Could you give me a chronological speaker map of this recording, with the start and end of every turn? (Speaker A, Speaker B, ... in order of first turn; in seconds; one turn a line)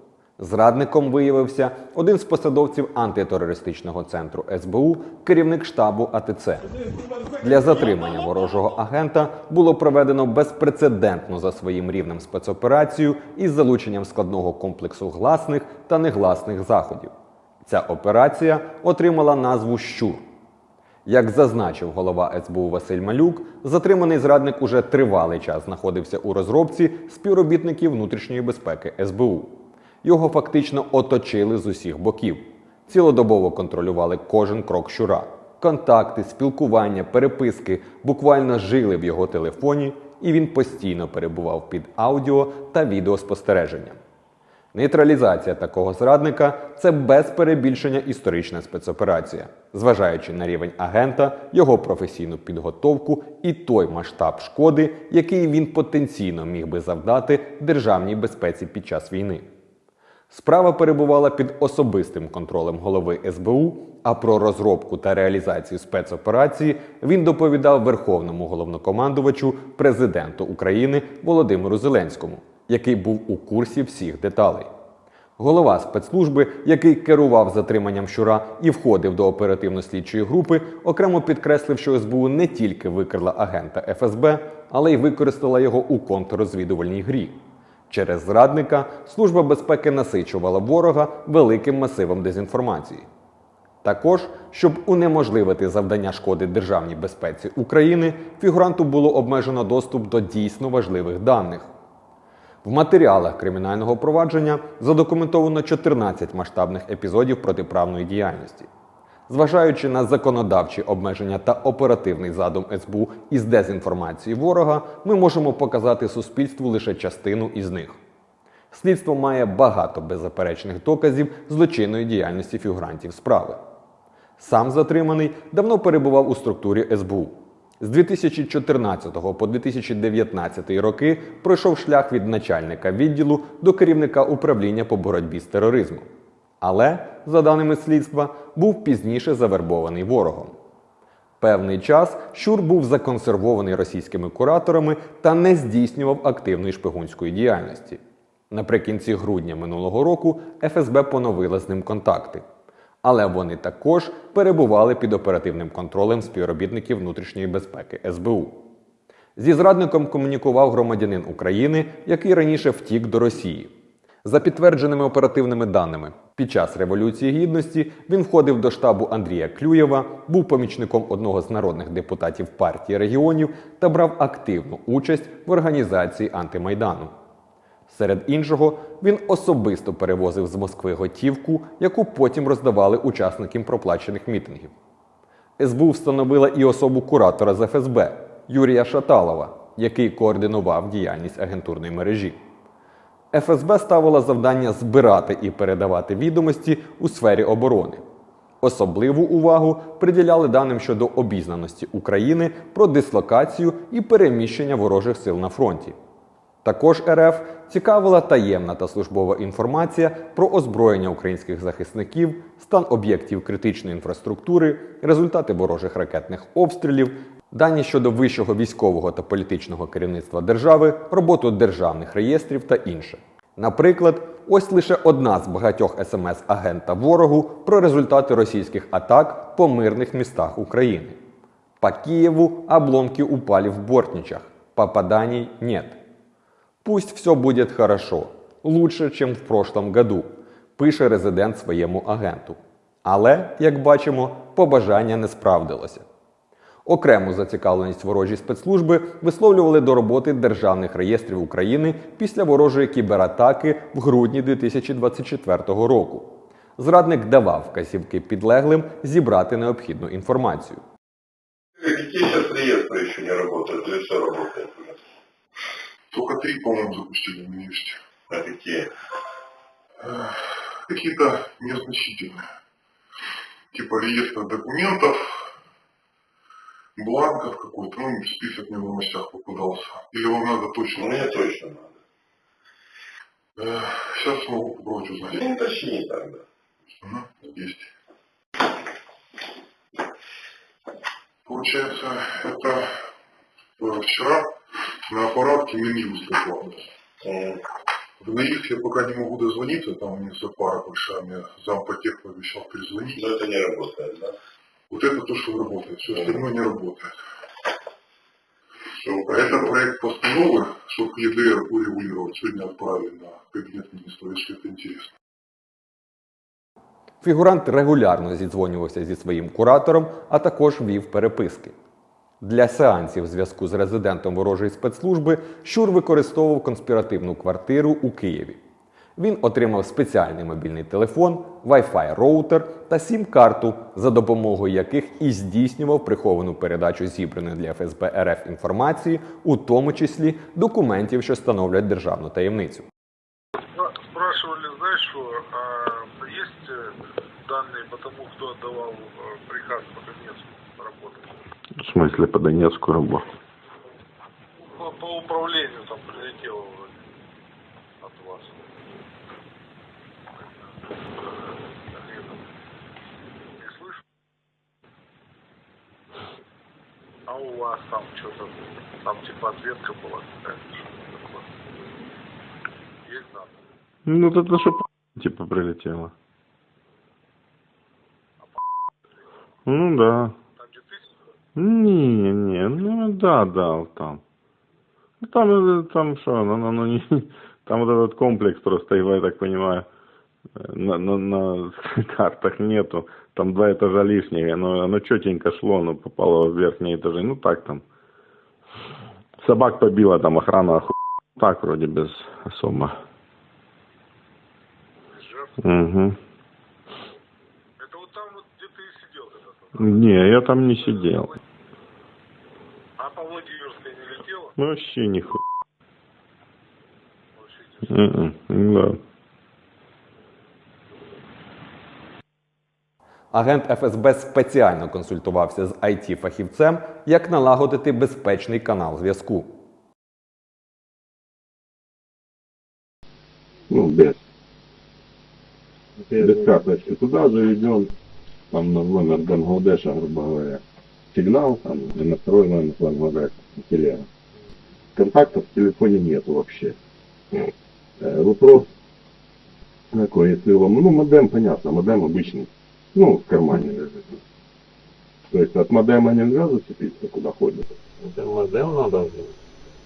Speaker A: 0.4-6.7
Speaker A: 7.4-17.1
Speaker A: 17.6-20.2
Speaker A: 21.1-44.0
Speaker A: 44.7-59.5
Speaker A: 60.3-74.7
Speaker A: 75.4-93.1
Speaker A: 93.8-101.7
Speaker A: 102.6-108.7
Speaker A: 109.3-118.0
Speaker A: 118.7-123.6
Speaker A: 124.4-136.0
Speaker A: 136.6-140.5
Speaker A: 141.4-148.0
Speaker A: 148.5-152.4
Speaker A: 153.0-158.6
Speaker A: 159.3-163.7
Speaker A: 164.2-177.1
Speaker A: 177.9-184.7
Speaker A: 185.6-192.4
Speaker A: 193.3-198.0
Speaker A: 198.6-205.9
Speaker A: 206.6-231.2
Speaker A: 231.8-236.0
Speaker A: 236.8-246.1
Speaker A: 246.8-260.8
Speaker B: 261.8-265.0
Speaker C: 266.1-268.0
Speaker B: 268.3-268.9
Speaker C: 270.0-270.4
Speaker C: 270.9-272.4
Speaker C: 273.7-275.3
Speaker C: 277.0-281.4
Speaker B: 280.9-282.0
Speaker C: 283.6-285.6
Speaker B: 285.3-286.4
Speaker C: 287.0-287.9
Speaker C: 291.4-292.9
Speaker C: 293.8-294.5
Speaker C: 295.1-296.8
Speaker B: 297.2-297.6
Speaker C: 298.2-303.3
Speaker B: 303.1-304.3
Speaker C: 304.9-307.1
Speaker B: 306.1-306.4
Speaker B: 309.0-309.8
Speaker C: 309.0-315.1
Speaker A: 317.2-321.7
Speaker A: 322.4-328.6
Speaker A: 329.2-342.9
Speaker D: 343.8-351.3
Speaker E: 351.8-353.2
Speaker D: 354.6-357.0
Speaker D: 358.0-358.5
Speaker D: 361.9-362.4
Speaker D: 363.6-364.0
Speaker D: 367.3-371.4
Speaker D: 373.0-373.5
Speaker E: 374.1-376.1
Speaker E: 379.6-380.4
Speaker D: 380.6-381.0
Speaker E: 381.6-384.2
Speaker E: 385.2-389.9
Speaker E: 390.6-397.8
Speaker E: 399.4-402.9
Speaker D: 405.1-405.5
Speaker E: 405.6-406.2
Speaker D: 407.8-409.9
Speaker E: 409.8-411.3
Speaker D: 413.0-414.5
Speaker E: 414.6-415.4
Speaker D: 417.4-418.0
Speaker E: 417.8-419.0
Speaker A: 423.3-429.5
Speaker F: 433.7-434.2
Speaker G: 436.0-436.6
Speaker F: 436.2-437.9
Speaker F: 438.5-444.1
Speaker F: 444.9-446.8
Speaker F: 447.3-448.7
Speaker F: 449.9-454.2
Speaker F: 455.3-457.7
Speaker G: 458.0-459.3